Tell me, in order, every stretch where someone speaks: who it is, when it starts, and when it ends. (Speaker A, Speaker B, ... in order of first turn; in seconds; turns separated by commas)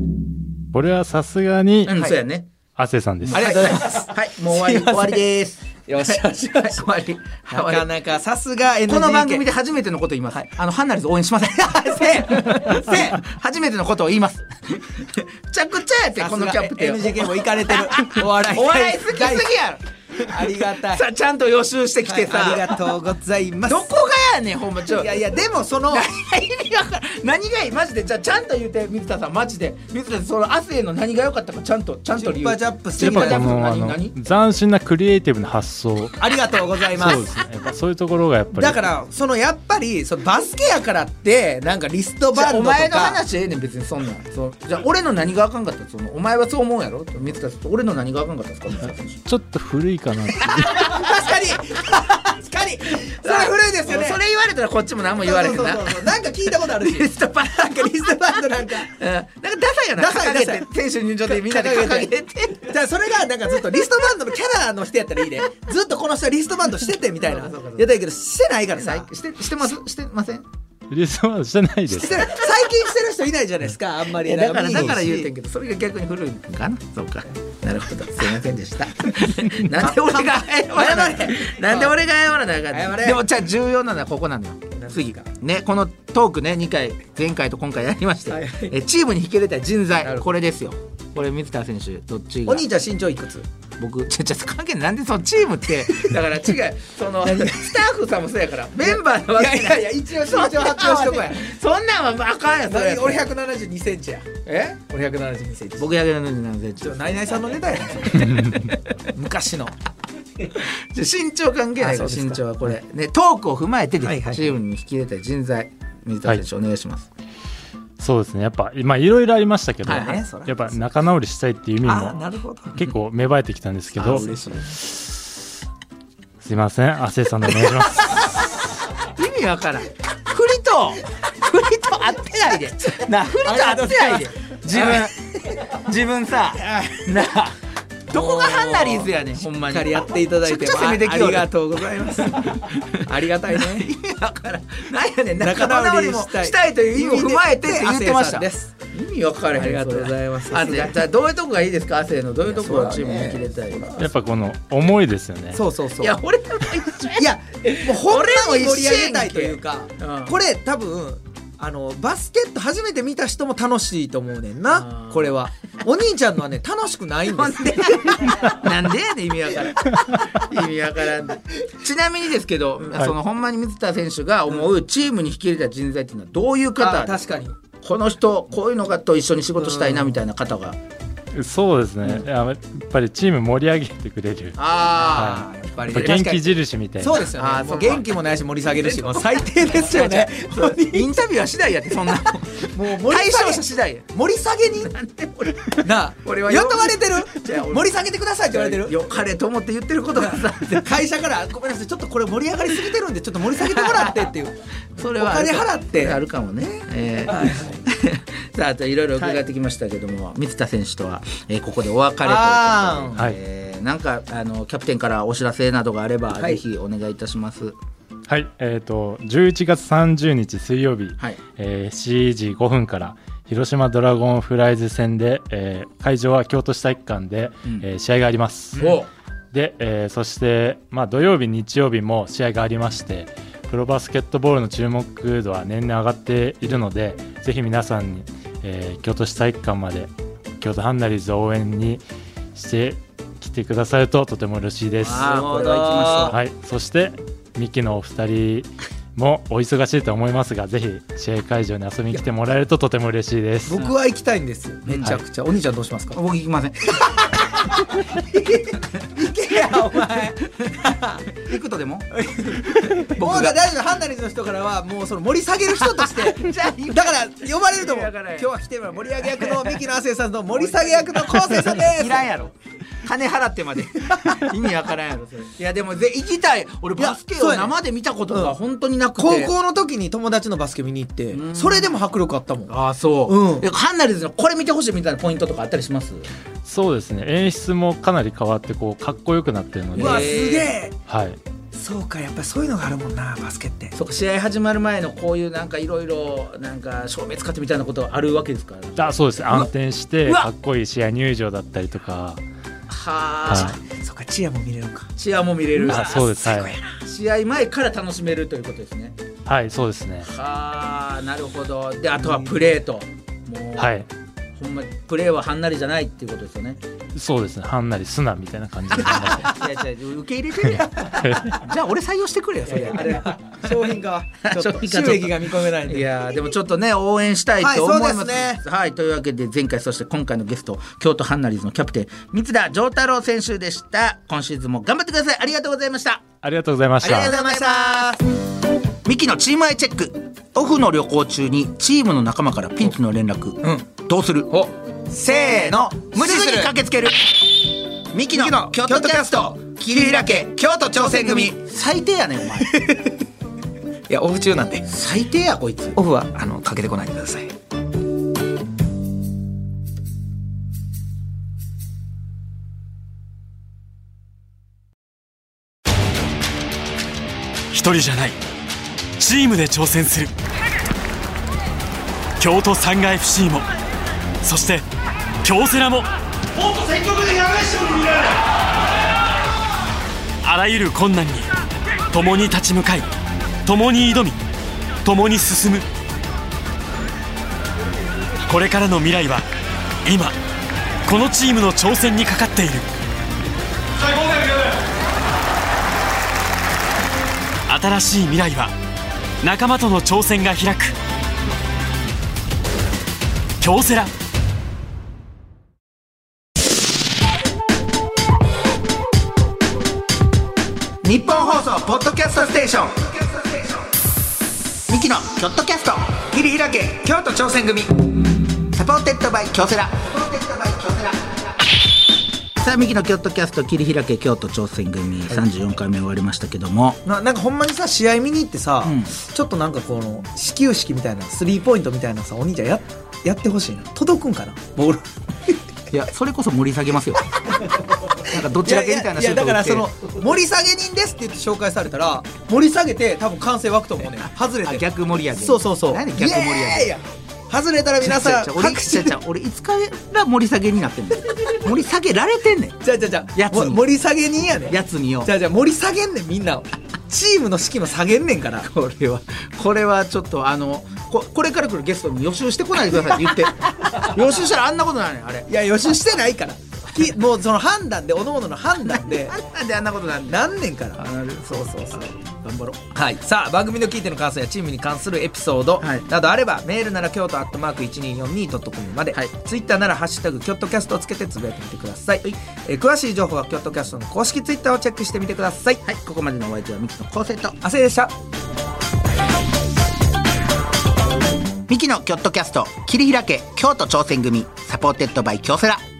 Speaker A: 0.7-2.0, Speaker B: 1.8-2.5, Speaker A: 2.8-3.6, Speaker B: 3.2-7.9, Speaker C: 3.3-5.2, Speaker C: 5.9-9.5, Speaker B: 8.9-22.8, Speaker C: 11.6-13.2, Speaker C: 16.2-19.5, Speaker C: 20.1-21.0, Speaker C: 22.0-23.9, Speaker B: 23.7-25.2, Speaker C: 24.9-26.0, Speaker B: 25.9-34.2, Speaker C: 32.1-33.6, Speaker A: 33.0-36.2, Speaker C: 36.2-37.2, Speaker A: 36.9-38.9, Speaker C: 38.5-43.2, Speaker B: 42.3-49.2, Speaker A: 49.2-50.9, Speaker B: 50.6-51.1, Speaker C: 50.6-54.2, Speaker B: 53.0-56.1, Speaker C: 55.2-59.0, Speaker B: 56.7-57.9, Speaker B: 58.8-62.7, Speaker C: 60.0-60.7, Speaker C: 61.2-62.1, Speaker C: 62.6-69.1, Speaker B: 67.2-67.9, Speaker B: 68.7-70.4, Speaker A: 70.9-72.3, Speaker C: 71.9-75.3, Speaker B: 74.2-92.7, Speaker C: 79.7-82.0, Speaker C: 82.7-83.2, Speaker C: 84.8-85.2, Speaker C: 88.3-88.8, Speaker C: 90.0-90.3, Speaker C: 92.5-93.5, Speaker B: 93.8-103.3, Speaker C: 97.2-97.7, Speaker C: 98.8-101.5, Speaker C: 102.7-105.9, Speaker B: 104.4-104.8, Speaker B: 105.8-108.8, Speaker C: 106.8-109.7, Speaker A: 108.2-108.7, Speaker B: 110.6-117.1, Speaker C: 111.8-112.7, Speaker C: 114.0-114.6, Speaker A: 118.0-122.2, Speaker B: 119.8-120.2, Speaker C: 119.9-120.8, Speaker C: 121.8-122.8, Speaker A: 122.7-124.3, Speaker C: 124.0-124.7, Speaker B: 124.1-124.5, Speaker A: 124.8-125.3, Speaker A: 126.4-128.2, Speaker B: 129.0-137.5, Speaker C: 133.4-135.1, Speaker C: 136.7-137.0, Speaker B: 138.1-141.5, Speaker C: 138.1-143.9, Speaker B: 142.2-143.0, Speaker B: 143.5-153.9, Speaker C: 145.4-148.7, Speaker C: 149.5-151.0, Speaker C: 152.5-154.1, Speaker A: 154.0-155.6, Speaker C: 155.5-156.2, Speaker B: 156.0-160.4, Speaker C: 157.2-168.6, Speaker B: 164.7-165.4, Speaker B: 167.4-177.2, Speaker C: 176.8-177.5, Speaker B: 177.8-180.8, Speaker C: 179.6-180.2, Speaker A: 181.3-187.2, Speaker B: 184.6-185.5, Speaker C: 184.9-191.2, Speaker B: 187.3-194.1, Speaker C: 192.1-194.9, Speaker B: 194.8-198.0, Speaker C: 195.8-199.0, Speaker B: 198.5-200.9, Speaker C: 200.1-206.2, Speaker B: 203.6-204.2, Speaker B: 204.9-217.8, Speaker C: 207.3-207.8, Speaker C: 209.2-209.4, Speaker C: 212.2-213.2, Speaker A: 218.3-228.9, Speaker B: 228.7-229.1, Speaker A: 229.5-242.0, Speaker A: 242.5-245.3, Speaker B: 245.0-246.4, Speaker C: 245.0-246.4, Speaker A: 246.3-253.9, Speaker C: 253.7-256.2, Speaker B: 254.9-255.2, Speaker B: 256.1-257.6, Speaker C: 257.0-261.4, Speaker B: 259.9-262.1, Speaker C: 262.1-272.3, Speaker B: 262.7-263.6, Speaker B: 265.8-268.5, Speaker B: 269.4-269.7, Speaker B: 270.5-279.5, Speaker C: 277.0-277.7, Speaker C: 279.2-282.7, Speaker B: 281.3-281.9, Speaker B: 282.7-286.2, Speaker C: 283.2-283.7, Speaker A: 286.6-290.4, Speaker B: 289.9-290.8, Speaker C: 289.9-290.9, Speaker A: 291.1-291.4, Speaker C: 291.7-293.9, Speaker B: 293.9-299.7, Speaker A: 299.0-302.4, Speaker B: 302.9-303.8, Speaker C: 303.5-305.1, Speaker A: 303.5-303.8, Speaker B: 305.2-309.2, Speaker C: 305.8-306.8, Speaker A: 305.9-306.7, Speaker A: 309.4-310.3, Speaker B: 310.2-316.8, Speaker A: 313.8-314.1, Speaker A: 317.1-319.5, Speaker B: 319.0-323.9, Speaker A: 321.2-321.5, Speaker C: 322.6-326.1, Speaker B: 324.4-336.2, Speaker C: 327.6-328.6, Speaker A: 336.4-337.3, Speaker B: 337.0-338.1, Speaker C: 337.0-338.2, Speaker B: 339.0-344.7, Speaker C: 343.6-343.9, Speaker C: 344.5-346.7, Speaker B: 345.2-352.8, Speaker C: 348.3-351.6, Speaker C: 352.6-353.1, Speaker C: 354.1-354.9, Speaker B: 354.8-356.0, Speaker C: 355.9-357.5, Speaker D: 367.7-368.4, Speaker D: 369.2-370.3, Speaker D: 372.4-373.7, Speaker D: 374.4-374.9, Speaker D: 375.4-376.1, Speaker C: 376.6-378.3, Speaker D: 380.4-381.5, Speaker D: 382.1-383.1, Speaker D: 383.6-384.4, Speaker D: 385.0-385.9, Speaker D: 388.4-389.4, Speaker D: 390.0-390.4, Speaker D: 391.1-392.9, Speaker D: 394.0-394.8, Speaker D: 397.7-398.7, Speaker D: 399.4-400.9, Speaker D: 403.6-404.1, Speaker B: 411.0-413.9, Speaker B: 414.9-421.5, Speaker B: 422.6-427.0, Speaker C: 427.0-435.9, Speaker B: 428.8-429.1, Speaker B: 435.9-437.2, Speaker C: 437.6-449.1, Speaker B: 438.2-439.9, Speaker B: 444.6-447.0, Speaker B: 448.0-452.8, Speaker C: 452.8-458.7, Speaker B: 453.5-453.8, Speaker B: 454.7-455.3, Speaker B: 458.6-465.5, Speaker C: 465.5-469.4, Speaker B: 468.9-470.4, Speaker C: 470.3-471.0, Speaker B: 471.0-472.9, Speaker C: 472.9-485.8, Speaker B: 475.8-476.1, Speaker B: 485.8-487.6, Speaker C: 487.6-488.1, Speaker B: 491.7-495.8